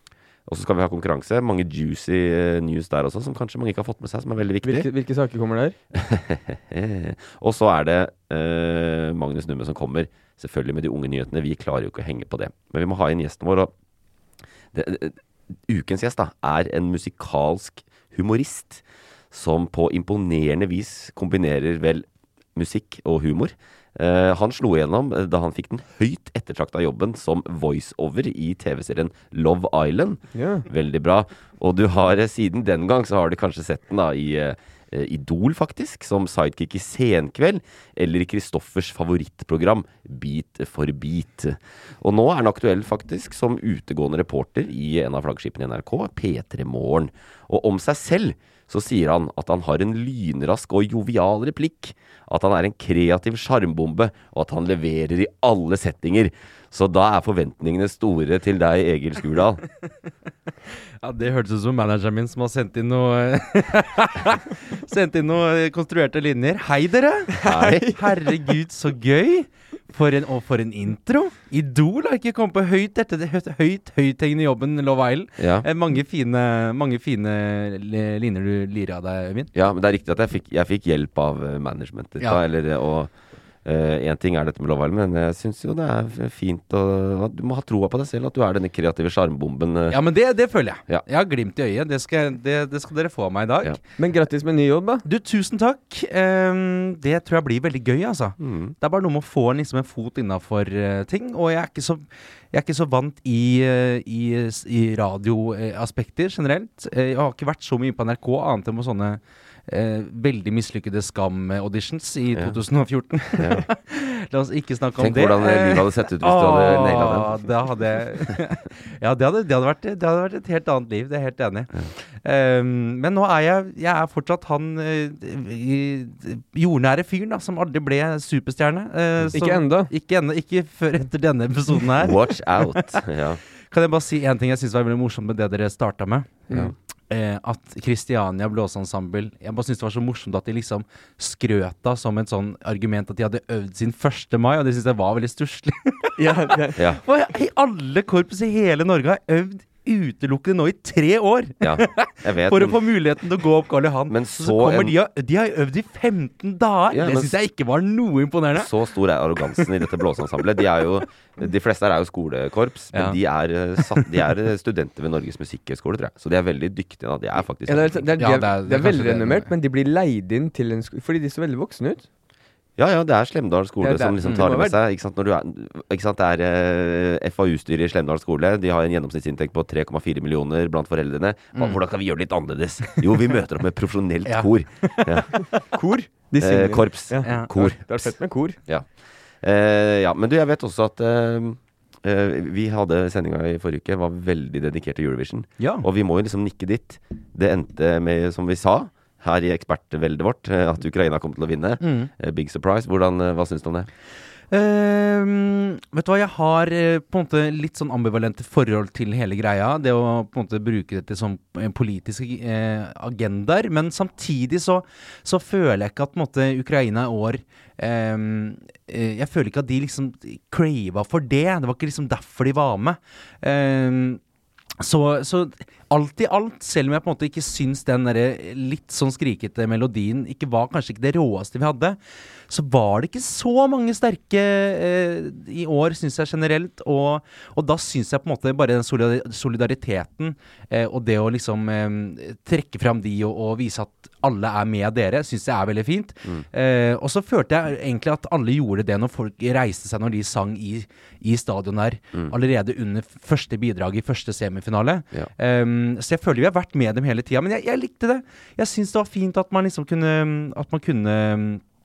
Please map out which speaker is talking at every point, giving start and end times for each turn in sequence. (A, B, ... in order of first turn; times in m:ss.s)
0:00.5-0:04.9 A
0:04.6-0:05.8 B
0:05.9-0:13.7 A
0:14.7-0:59.6 A
0:30.4-0:30.7 B
1:01.0-1:19.5 C
1:07.4-1:07.9 A
1:07.4-1:07.9 B
1:15.4-1:15.7 A
1:19.5-1:23.1 A
1:23.6-1:30.0 A
1:29.9-1:33.8 C
1:34.0-1:35.0 B
1:35.0-2:13.0 C
1:38.4-1:38.7 A
1:53.4-1:53.6 A
1:55.0-1:57.4 A
2:09.3-2:09.9 B
2:12.0-2:13.4 A
2:13.7-2:16.5 C
2:17.1-2:38.7 C
2:26.2-2:26.8 B
2:26.8-2:27.0 A
2:31.6-2:32.8 A
2:34.1-2:34.9 A
2:36.9-2:37.3 A
2:38.6-2:48.1 A
2:43.8-2:44.1 C
2:47.7-2:52.1 B
2:48.2-2:49.5 C
2:52.8-3:05.4 A
2:53.8-2:54.8 B
3:05.7-3:08.6 B
3:06.4-3:07.9 A
3:07.2-3:07.5 C
3:09.4-3:23.9 A
3:15.6-3:15.9 C
3:21.8-3:22.1 C
3:24.5-3:44.2 C
3:44.8-3:52.0 C
3:52.5-4:21.6 C